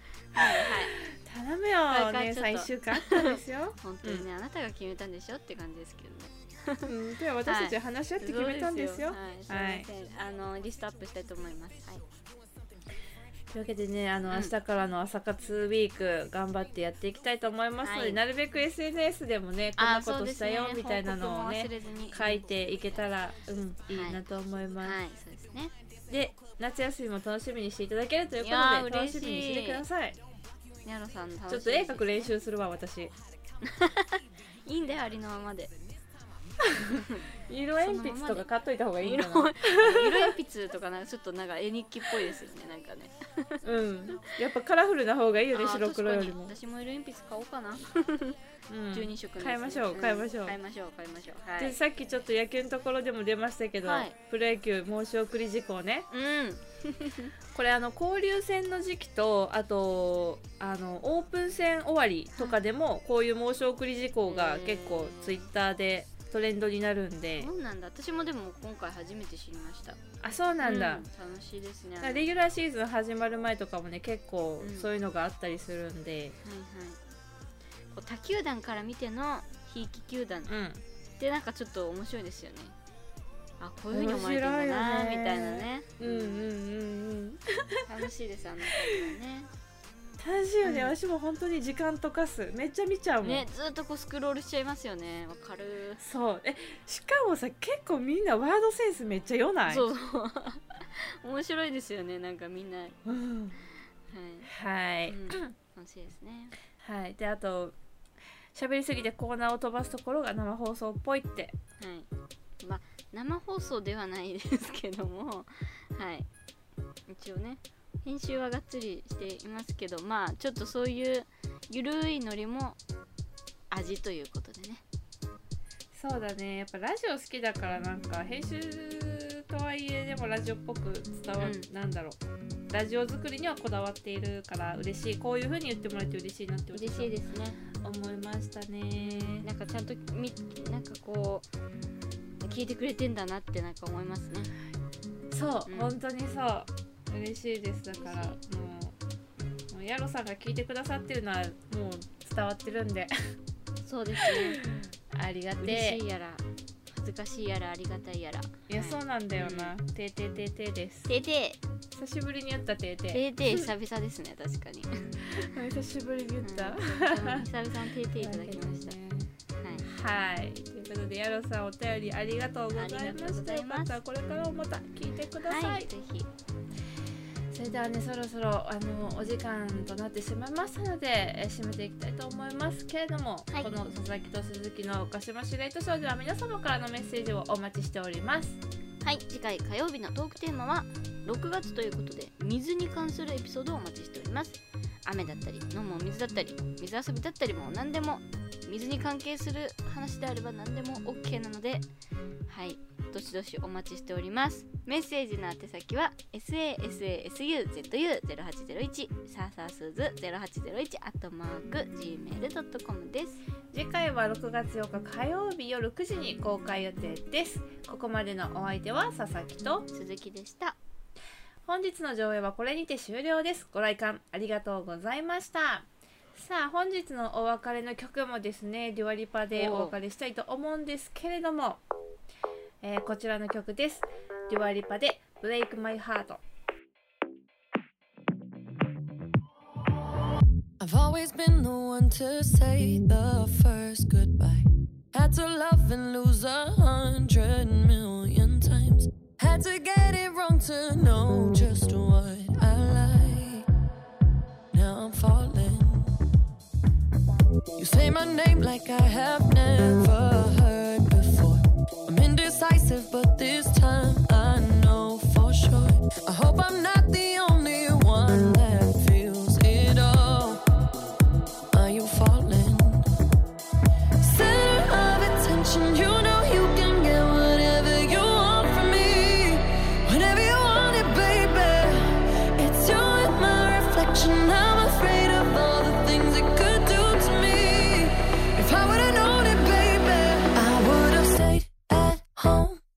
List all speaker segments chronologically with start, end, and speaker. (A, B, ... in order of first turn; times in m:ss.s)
0:00.4-0:00.9 A
0:00.4-0:04.3 B
0:01.9-0:06.9 A
0:06.8-0:09.9 B
0:07.5-0:12.0 A
0:13.5-0:25.0 B
0:17.8-0:18.2 A
0:19.8-0:23.1 A
0:23.9-0:24.2 A
0:24.8-0:25.7 A
0:26.1-0:30.2 B
0:28.4-0:29.8 A
0:30.8-0:32.3 A
0:31.5-0:33.1 B
0:33.6-0:35.7 A
0:36.7-0:40.3 B
0:37.8-0:38.5 A
0:39.0-0:43.6 A
0:43.6-0:46.6 B
0:45.5-0:48.4 A
0:48.7-0:50.6 B
0:48.9-0:51.8 A
0:51.6-0:56.1 B
0:53.8-0:54.2 A
0:56.1-0:57.4 A
0:57.5-1:07.5 B
1:04.3-1:05.4 A
1:07.4-1:10.0 A
1:10.2-1:11.0 B
1:10.6-1:12.3 A
1:12.0-1:16.4 B
1:14.6-1:14.9 A
1:16.4-1:17.0 A
1:17.9-1:20.5 A
1:20.5-1:20.8 B
1:21.2-1:22.7 A
1:23.6-1:26.5 A
1:23.9-1:27.8 B
1:27.7-1:29.5 A
1:28.8-1:29.1 B
1:30.2-1:33.4 B
1:30.6-1:31.0 A
1:33.2-1:36.0 A
1:36.0-1:39.8 B
1:39.7-1:43.0 A
1:43.1-1:43.6 B
1:44.1-1:44.5 A
1:44.5-1:45.5 B
1:45.1-1:46.6 A
1:46.8-1:47.8 B
1:48.6-1:51.6 B
1:51.8-1:52.1 A
1:52.6-1:56.3 A
1:57.1-2:02.8 A
2:03.7-2:04.8 A
2:05.9-2:12.2 B
2:11.4-2:11.7 A
2:12.7-2:17.1 B
2:16.7-2:17.6 A
2:17.8-2:19.5 B
2:19.0-2:21.5 A
2:22.4-2:24.5 A
2:25.3-2:28.9 B
2:25.7-2:25.9 A
2:27.9-2:28.4 A
2:29.7-2:33.1 B
2:33.8-2:34.6 A
2:34.2-2:36.0 B
2:35.6-2:39.7 A
2:38.7-2:41.1 B
2:41.1-2:41.6 A
2:42.0-2:43.7 B
2:43.1-2:45.5 A
2:45.3-2:47.5 B
2:46.4-2:49.0 A
2:48.2-2:49.3 B
2:49.6-2:49.8 A
2:49.8-2:55.9 B
2:52.8-2:54.0 A
2:55.4-2:56.3 A
2:57.5-3:08.6 B
3:09.0-3:21.9 A
3:22.5-3:33.4 A
3:33.7-3:39.9 B
3:39.9-3:40.8 A
3:41.7-3:51.8 B
3:49.5-3:50.0 A
3:52.8-3:56.4 B
4:00.8-4:13.7 C
4:14.7-4:16.2 C
4:17.8-4:30.6 C
4:31.7-4:33.1 C
4:34.2-4:52.8 C